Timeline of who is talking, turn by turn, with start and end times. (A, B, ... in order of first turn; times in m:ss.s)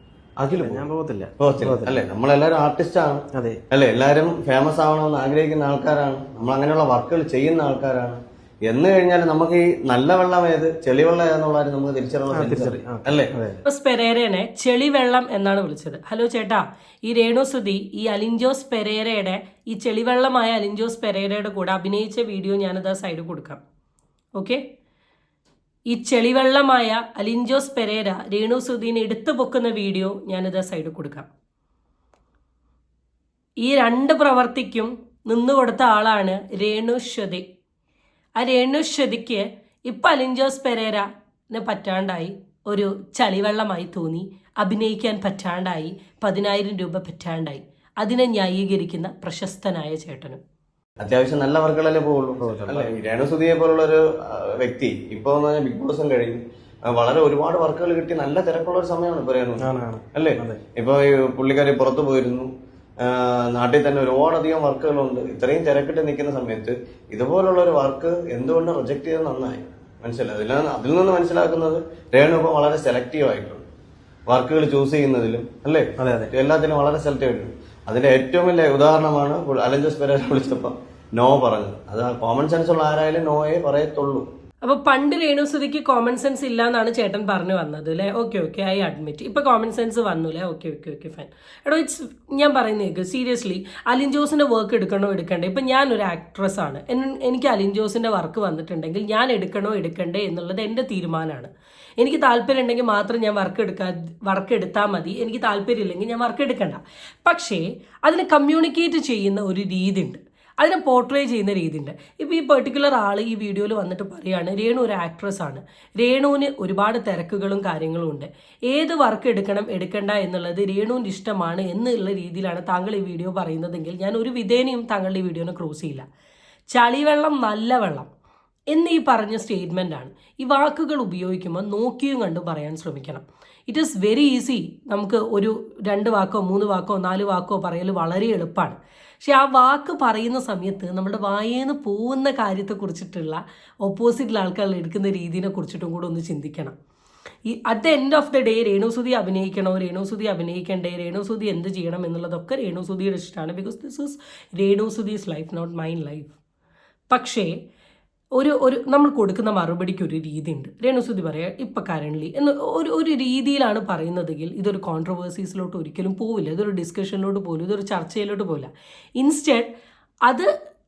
0:00.4-0:00.8 A
0:00.5-0:02.0 B
0:01.4-0:13.3 A
0:03.3-0:03.6 B
0:12.3-0:13.6 B
0:13.6-0:23.6 C
0:25.9-0:31.3 C
0:33.6-0:37.4 C
0:38.4-0:50.4 C
0:51.0-1:13.6 A
0:52.4-0:52.9 B
0:59.6-1:00.6 B
1:14.3-1:24.2 A
1:16.0-1:16.3 B
1:24.6-2:06.0 C
2:06.7-2:08.1 C
2:08.7-2:26.7 C
2:27.5-2:36.3 C
2:37.1-2:37.5 C
2:38.4-2:49.7 C